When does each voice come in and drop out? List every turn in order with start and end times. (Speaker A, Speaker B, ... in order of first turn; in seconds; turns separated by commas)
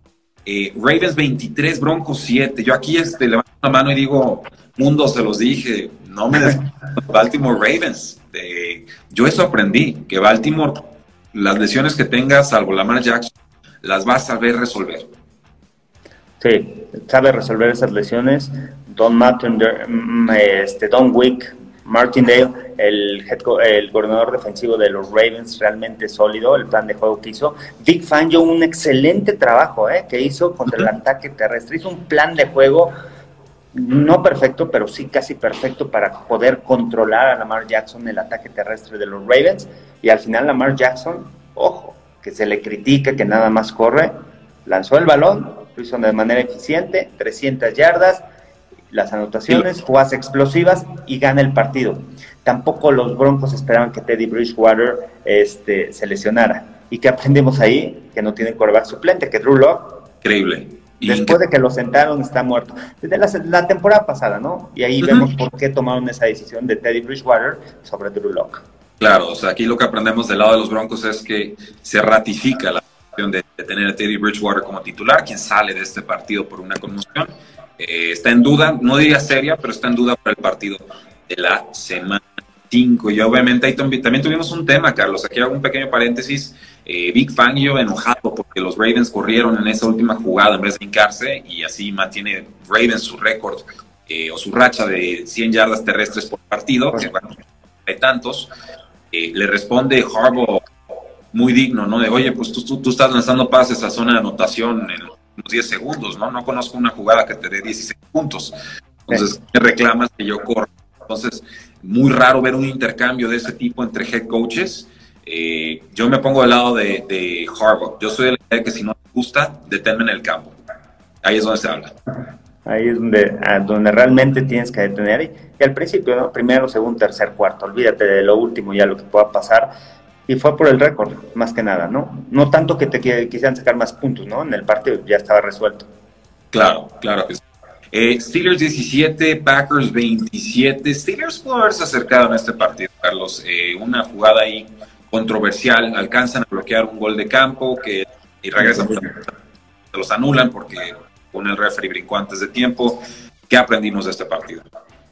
Speaker A: 0.4-13.3, Speaker A: 13.8-15.1, Speaker B: 16.4-32.9, Speaker B: 33.7-44.1, Speaker B: 44.6-48.2, Speaker B: 48.9-60.1, Speaker A: 60.2-61.4, Speaker B: 61.0-68.6, Speaker A: 65.0-65.3, Speaker A: 69.0-98.5, Speaker A: 99.1-100.7, Speaker A: 101.3-108.5, Speaker A: 109.1-120.5, Speaker A: 121.2-121.9, Speaker B: 122.7-129.7, Speaker B: 130.3-135.9, Speaker A: 136.5-137.4, Speaker A: 137.9-149.3, Speaker B: 148.6-149.1, Speaker A: 149.9-154.6